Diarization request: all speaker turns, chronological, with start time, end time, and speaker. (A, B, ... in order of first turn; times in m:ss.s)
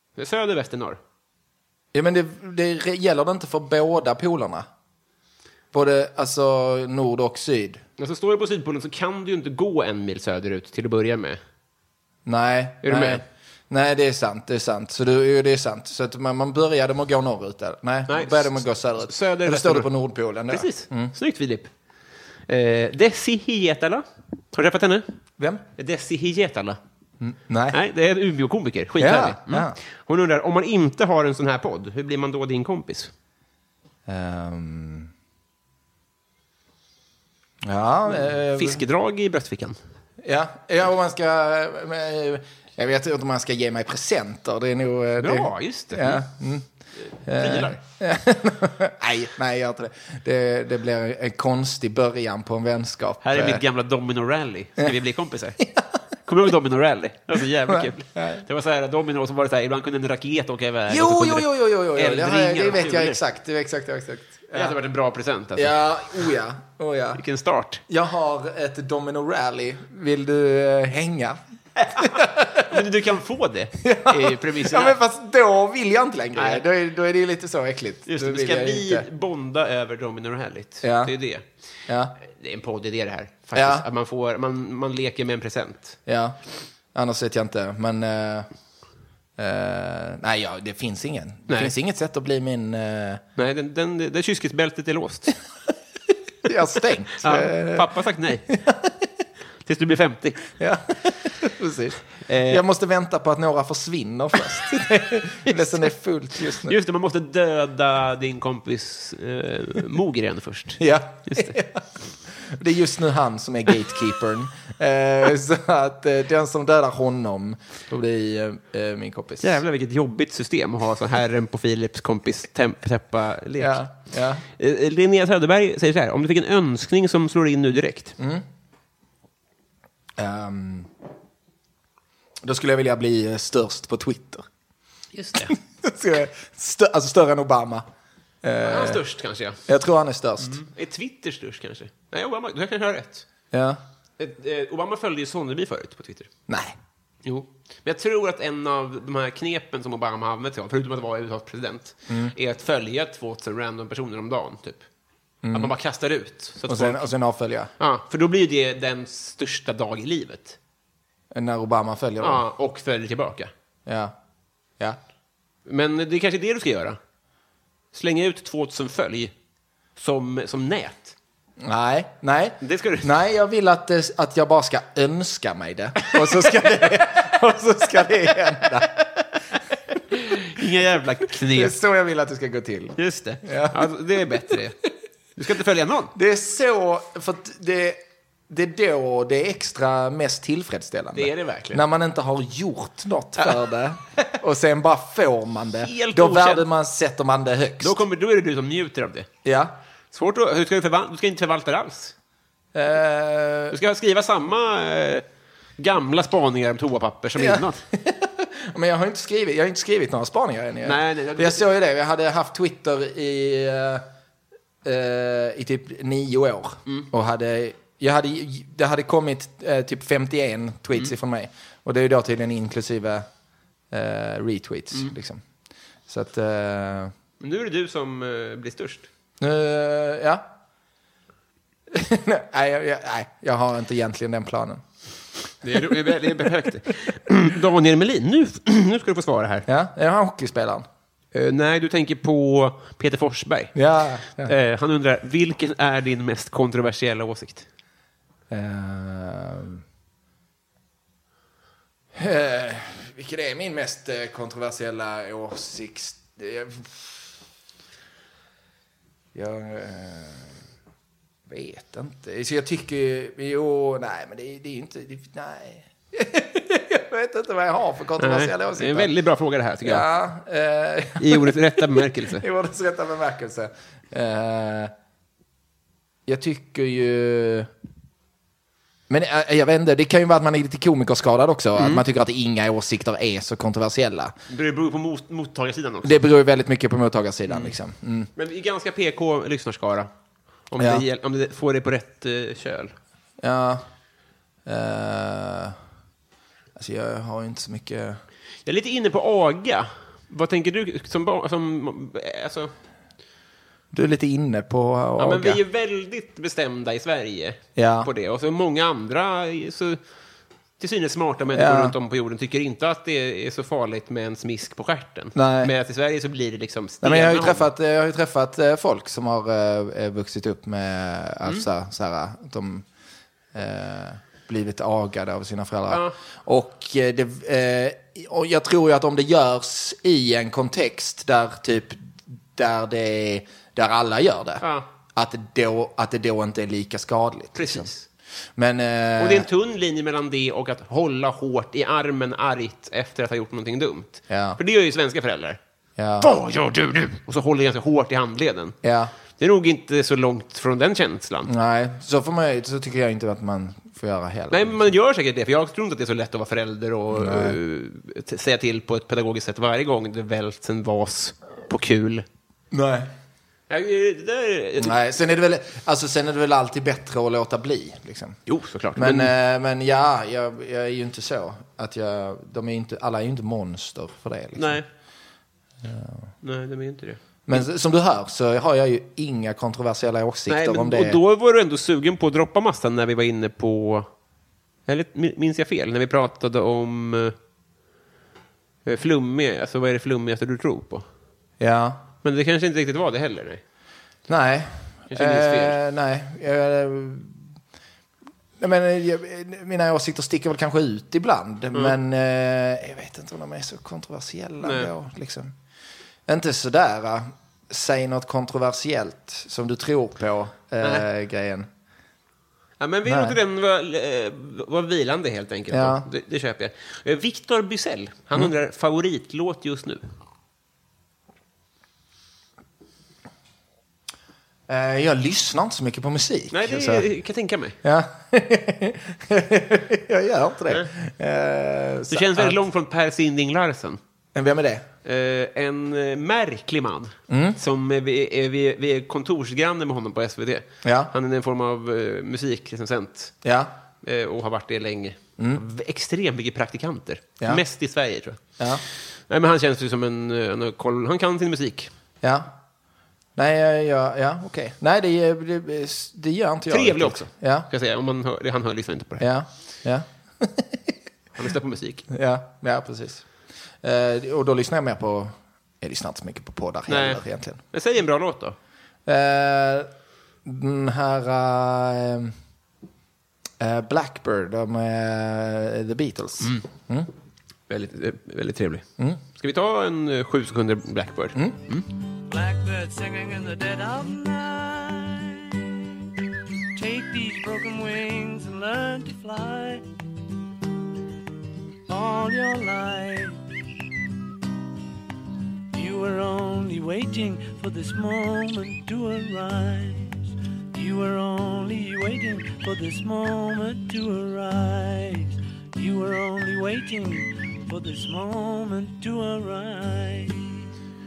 0:00.2-0:01.0 A
0:01.9-0:04.7 B
0:05.7-0:07.8 B
0:08.0-0:11.4 A
0:12.3-0:21.1 B
0:12.8-0:13.2 A
0:18.1-0:19.9 A
0:20.5-0:21.7 A
0:22.5-0:25.0 A
0:25.4-0:25.6 B
0:25.8-0:26.8 A
0:27.2-0:27.8 B
0:27.7-0:33.1 A
0:29.0-0:29.8 B
0:34.1-0:35.1 B
0:37.6-0:38.8 B
0:38.1-0:39.8 A
0:40.2-0:46.7 B
0:45.2-0:46.2 A
0:47.2-0:53.6 B
0:47.3-0:47.8 A
0:53.2-0:55.6 A
0:56.3-1:03.2 A
0:57.7-0:58.4 B
1:00.9-1:04.8 B
1:04.5-1:05.8 A
1:05.6-1:07.2 B
1:07.2-1:07.8 A
1:07.9-1:12.8 B
1:11.8-1:15.0 A
1:13.8-1:19.1 B
1:16.4-1:16.6 A
1:18.1-1:21.5 A
1:20.8-1:21.1 B
1:21.9-1:22.2 B
1:22.3-1:26.0 A
1:23.6-1:23.9 B
1:26.1-1:26.4 B
1:26.9-1:28.5 B
1:29.4-1:33.2 B
1:33.4-1:35.4 A
1:36.4-1:37.9 B
1:37.2-1:38.6 A
1:38.5-1:38.9 B
1:39.6-1:40.5 A
1:40.6-1:46.8 B
1:42.3-1:42.6 A
1:46.5-1:51.6 A
1:50.8-1:59.6 B
1:59.4-2:03.8 A
2:03.6-2:04.4 B
2:04.6-2:08.2 A
2:08.2-2:08.4 B
2:10.2-2:10.9 B
2:12.4-2:14.5 B
2:15.1-2:15.6 A
2:15.5-2:17.9 B
2:18.4-2:19.0 B
2:18.6-2:19.6 A
2:19.7-2:20.6 B
2:20.4-2:23.3 A
2:23.5-2:23.8 B
2:24.2-2:26.3 A
2:26.5-2:26.8 B
2:27.2-2:34.8 A
2:32.1-2:32.3 B
2:35.4-2:35.7 B
2:35.5-2:37.0 A
2:36.7-2:37.7 B
2:37.8-2:40.6 A
2:41.3-2:42.4 B
2:42.2-2:43.5 A
2:43.9-2:44.2 B
2:45.7-2:47.0 A
2:47.9-2:49.3 A
2:50.0-2:51.2 A
2:51.6-2:59.0 B
2:52.6-2:53.2 A
3:00.1-3:01.8 A
3:01.5-3:03.9 B
3:03.0-3:04.8 A
3:05.4-3:06.1 A
3:06.2-3:18.0 B
3:11.2-3:11.8 A
3:15.8-3:16.6 A
3:17.8-3:19.3 A
3:19.4-3:19.8 B
3:20.1-3:22.1 A
3:22.7-3:23.8 B
3:23.7-3:25.2 A
3:25.8-3:27.8 A
3:27.4-3:34.1 B
3:30.8-3:31.6 A
3:34.8-3:43.3 B
3:43.9-3:45.4 B
3:46.1-3:47.1 B
3:47.4-3:49.1 A
3:49.4-3:50.5 B
3:51.9-3:54.8 B
3:55.6-3:59.7 A
3:59.7-4:00.9 B
4:01.3-4:03.8 A
4:03.8-4:04.5 B
4:04.4-4:07.7 A
4:08.5-4:09.8 B
4:12.2-4:17.3 B
4:19.3-4:20.6 B
4:21.5-4:29.1 B
4:28.2-4:30.1 A
4:29.8-4:34.9 B
4:31.2-4:32.4 A
4:36.3-4:37.7 B
4:39.1-4:44.3 B
4:41.8-4:42.0 A
4:44.5-4:46.2 A
4:46.0-4:48.3 B
4:47.5-4:47.8 A
4:48.4-4:50.1 A
4:50.7-4:53.0 A
4:50.8-4:51.0 B
4:53.4-4:53.9 B
4:54.7-4:55.8 B
4:56.8-4:58.2 B
4:58.7-5:02.7 A
5:03.9-5:05.6 B
5:05.2-5:10.0 A
5:07.8-5:08.1 B
5:10.8-5:17.7 A
5:11.5-5:12.0 B
5:15.4-5:15.7 B
5:17.0-5:22.8 B
5:23.5-5:34.6 B
5:25.9-5:26.2 A
5:34.6-5:34.9 A
5:35.2-5:37.9 B
5:37.6-5:38.1 A
5:38.6-5:39.5 B
5:39.2-5:45.6 A
5:44.3-5:44.6 B
5:46.0-5:46.3 B
5:46.2-5:48.8 A
5:48.8-5:49.1 B
5:49.4-5:51.5 A
5:51.5-5:54.9 B
5:54.5-6:02.2 A
5:57.1-5:57.6 B
6:02.7-6:03.1 B
6:03.7-6:04.9 A
6:04.8-6:08.4 B
6:08.5-6:09.3 A
6:09.0-6:14.8 B
6:14.6-6:14.9 A
6:15.8-6:16.3 B
6:16.4-6:17.6 A
6:17.5-6:21.2 B
6:20.5-6:24.1 A
6:24.9-6:27.4 A
6:28.9-6:31.1 A
6:31.6-6:32.0 B
6:32.2-6:33.6 A
6:34.3-6:37.4 B
6:35.1-6:35.8 A
6:38.6-6:45.6 B
6:44.6-6:44.9 A
6:46.3-6:51.7 B
6:52.8-7:00.0 A
6:53.0-6:53.4 B
6:55.7-6:56.1 B
7:04.7-7:07.1 B
7:06.5-7:07.8 A
7:07.8-7:12.6 B
7:12.1-7:14.0 A
7:14.4-7:14.9 B
7:15.0-7:23.3 A
7:17.3-7:17.6 B
7:20.8-7:21.1 B
7:23.4-7:23.7 B
7:24.0-7:28.4 A
7:28.6-7:28.8 B
7:29.3-7:31.9 A
7:32.2-7:32.5 B
7:33.4-7:37.7 B
7:36.7-7:39.2 A
7:39.2-7:40.9 B
7:41.4-7:42.1 A
7:42.1-7:43.2 B
7:43.8-7:47.6 B
7:46.9-7:47.2 A
7:47.7-7:48.6 A
7:49.1-7:49.9 B
7:50.4-7:52.3 B
7:53.6-7:57.1 B
7:57.7-8:01.9 A
8:02.3-8:05.9 C
8:06.8-8:09.8 C
8:11.9-8:13.4 C
8:15.7-8:30.5 C